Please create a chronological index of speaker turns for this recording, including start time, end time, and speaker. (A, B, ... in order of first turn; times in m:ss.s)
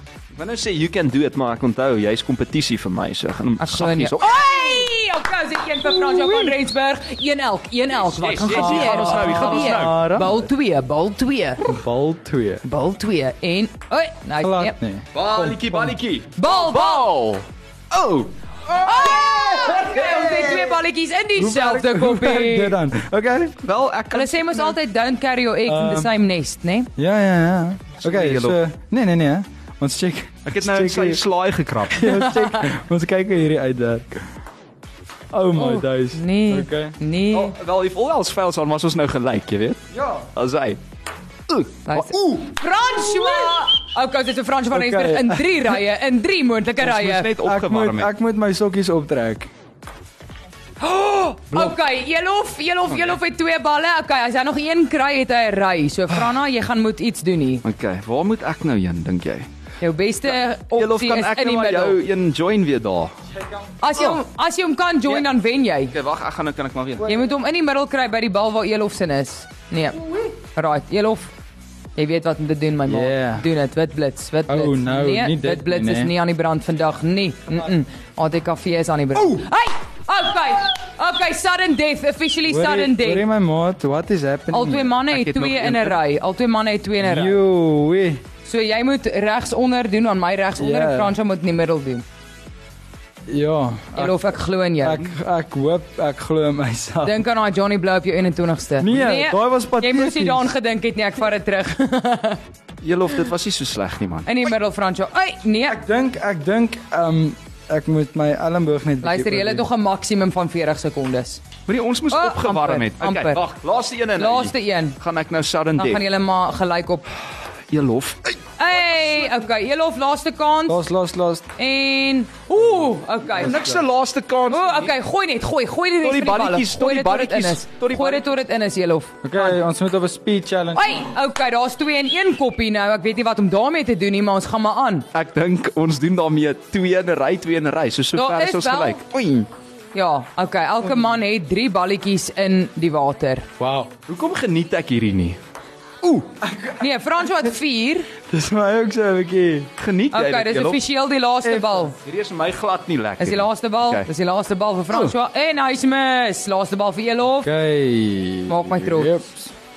0:00.3-0:04.6 A
0:03.6-0:11.8 B
0:06.0-0:06.5 C
0:08.0-0:10.2 A
0:08.5-0:10.3 C
0:11.7-0:12.6 C
0:12.6-0:14.7 B
0:14.4-0:16.0 C
0:15.1-0:20.5 A
0:16.4-0:17.1 B
0:18.7-0:22.8 B
0:19.8-0:20.6 C
0:21.4-0:23.6 C
0:23.6-0:24.7 A
0:24.1-0:26.9 B
0:25.7-0:26.1 C
0:27.0-0:31.2 C
0:28.0-0:28.6 A
0:30.4-0:32.1 A
0:31.8-0:34.2 C
0:32.0-0:32.7 B
0:35.3-0:36.9 C
0:35.6-0:37.5 B
0:37.3-0:40.8 A
0:39.9-0:40.3 C
0:41.5-0:42.6 A
0:41.9-0:47.3 B
0:44.7-0:45.6 C
0:46.8-0:48.1 A
0:47.4-0:49.5 C
0:50.8-0:57.6 B
0:57.6-0:59.5 A
0:59.8-1:02.0 B
1:00.2-1:03.1 A
1:03.8-1:05.9 B
1:05.9-1:07.1 A
1:07.0-1:11.3 B
1:12.0-1:23.2 B
1:12.9-1:13.5 C
1:14.5-1:16.1 C
1:22.5-1:24.9 C
1:24.5-1:27.4 B
1:25.1-1:26.0 A
1:27.0-1:28.2 C
1:28.4-1:32.0 B
1:30.6-1:31.1 C
1:33.3-1:34.2 C
1:33.9-1:35.0 B
1:34.8-1:37.2 C
1:37.0-1:42.4 B
1:38.8-1:40.5 C
1:42.8-1:44.5 A
1:44.2-1:45.8 B
1:45.7-1:49.6 C
1:49.0-1:51.4 B
1:51.7-1:56.0 A
1:52.1-1:53.4 B
1:54.2-1:55.0 B
1:55.8-1:57.1 B
1:57.7-1:59.2 A
1:58.6-2:00.9 B
2:00.7-2:01.5 C
2:01.6-2:03.7 B
2:03.3-2:04.9 A
2:04.5-2:09.6 B
2:06.0-2:08.2 A
2:09.2-2:11.0 C
2:10.7-2:15.1 B
2:15.1-2:19.5 A
2:18.1-2:19.0 B
2:19.9-2:23.5 B
2:23.6-2:23.9 C
2:24.1-2:25.4 A
2:26.0-2:26.3 A
2:26.4-2:26.8 C
2:26.8-2:28.1 B
2:28.3-2:29.7 C
2:29.8-2:30.8 A
2:30.1-2:32.0 B
2:31.4-2:31.9 C
2:32.0-2:34.1 A
2:33.2-2:37.5 B
2:37.4-2:39.5 C
2:38.5-2:39.2 B